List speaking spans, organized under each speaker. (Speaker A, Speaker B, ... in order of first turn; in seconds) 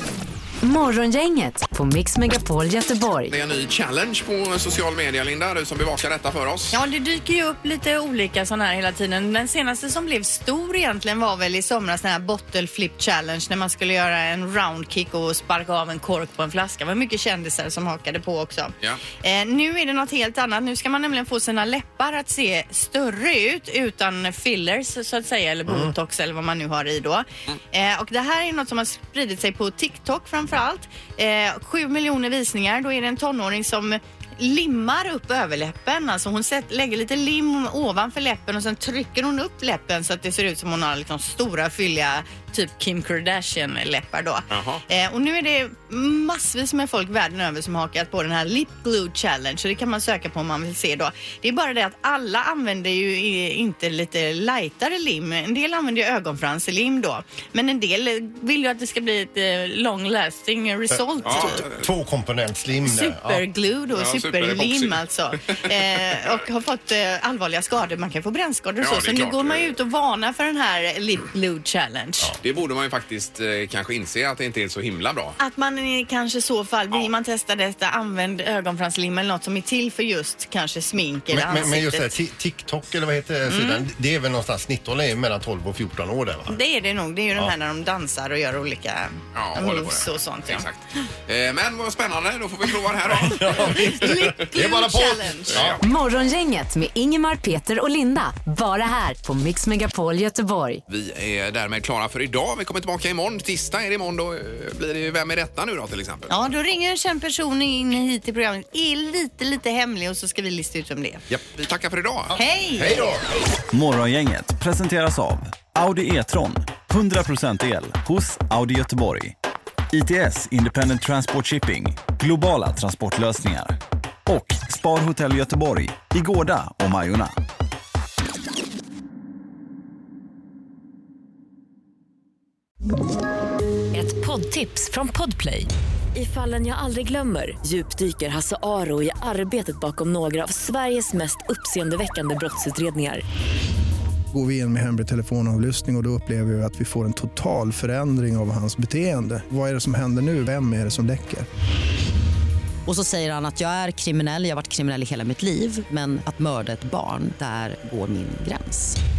Speaker A: 0.6-3.3, 95.8-100.8
Speaker B: 3.3-6.8, 44.5-44.8, 61.2-61.9, 63.9-66.3, 68.8-69.7, 72.4-75.4, 89.3-94.3, 95.5-95.8, 100.9-106.3, 111.5-112.4
Speaker C: 6.7-61.6, 62.9-72.3, 75.4-82.1, 83.5-83.8, 86.5-90.6, 93.5-95.6, 106.3-111.2, 112.3-113.1
Speaker D: 61.2-63.4, 81.3-86.5, 93.1-95.8, 112.8-113.2
Speaker E: 113.7-119.3, 119.9-127.3
Speaker F: 133.9-143.2
Speaker G: 144.3-151.5
Speaker H: 152.9-159.0